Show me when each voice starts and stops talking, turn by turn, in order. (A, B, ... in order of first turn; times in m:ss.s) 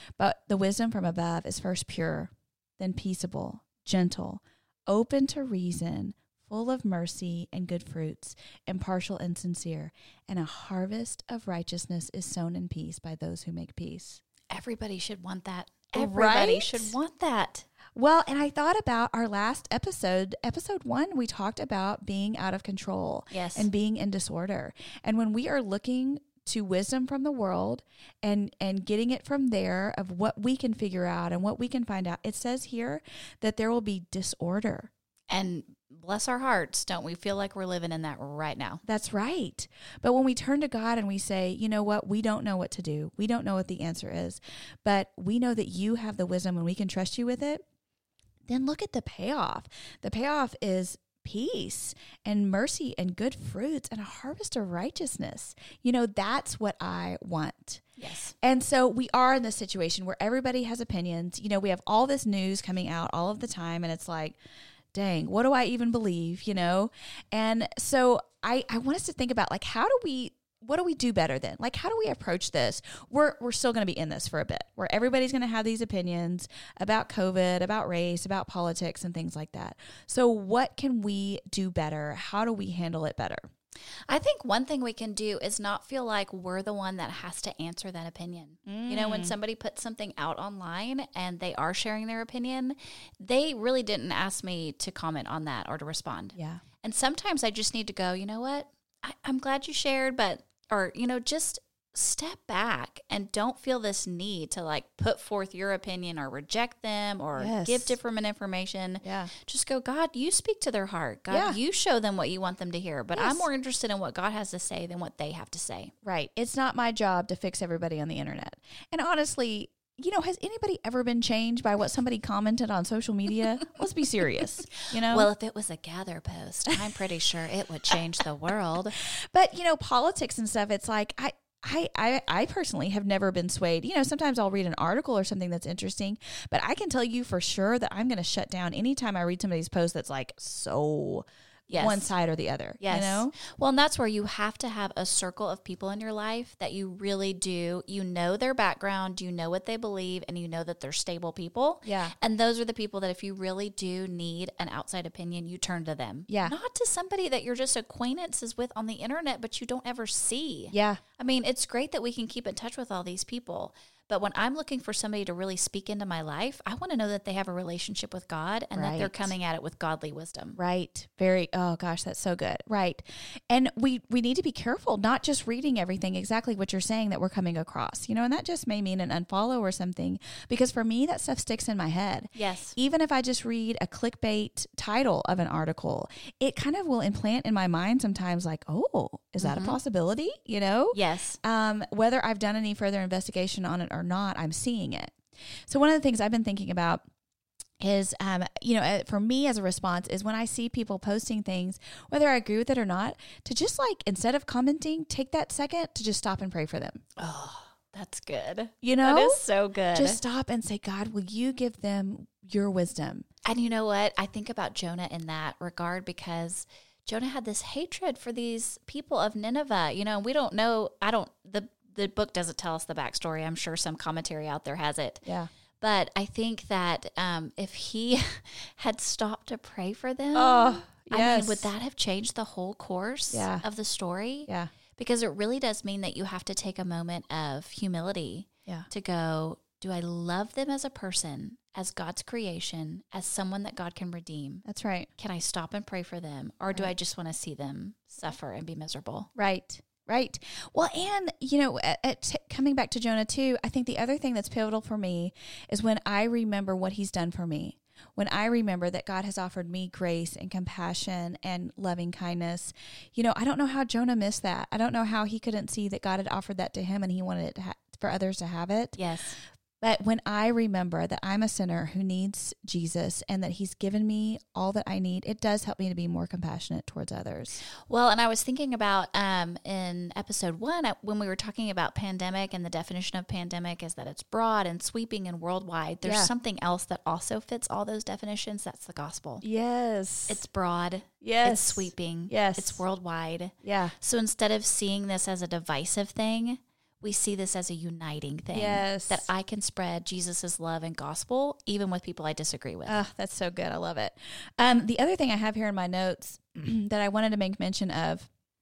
0:00.2-0:14.2 A
0:14.5-0:17.6 B
0:15.9-0:17.0 A
0:17.9-0:34.9 A
0:23.3-0:23.7 B
0:35.3-0:38.8 B
0:38.8-0:47.6 A
0:48.5-0:57.8 A
0:58.0-0:58.3 B
0:58.4-1:04.4 A
1:04.9-1:23.4 A
1:24.1-1:55.9 B
1:28.6-1:29.3 A
1:36.4-1:36.6 A
1:47.4-1:47.9 A
1:49.0-1:49.3 A
1:51.3-1:51.6 A
1:53.1-1:53.5 A
1:56.0-2:05.3 A
2:05.0-2:09.0 B
2:09.1-2:23.3 A
2:21.7-2:22.1 B
2:22.8-2:50.6 B
2:31.8-2:32.1 A
2:36.3-2:36.5 A
2:40.7-2:41.0 A
2:48.7-2:49.3 A
2:50.6-3:15.2 A
3:02.4-3:02.7 B
3:09.4-3:09.8 B
3:10.9-3:11.4 B
3:15.7-3:17.0 A
3:17.8-3:27.0 A
3:27.2-3:30.2 B
3:28.8-3:29.4 A
3:29.9-3:33.2 A
3:33.4-3:45.2 B
3:45.2-3:45.5 A
3:45.8-4:04.6 B
3:50.3-3:51.7 A
3:53.3-3:53.6 A
4:04.6-4:05.1 A
4:05.2-4:09.3 B
4:09.3-4:29.0 A
4:29.0-4:29.4 B
4:29.8-4:37.6 A
4:37.9-4:49.4 B
4:46.0-4:46.3 A
4:49.4-4:50.4 A
4:50.3-5:03.0 B
4:51.2-4:52.8 A
4:53.6-4:53.9 A
4:58.5-4:59.3 A
5:02.9-5:08.3 A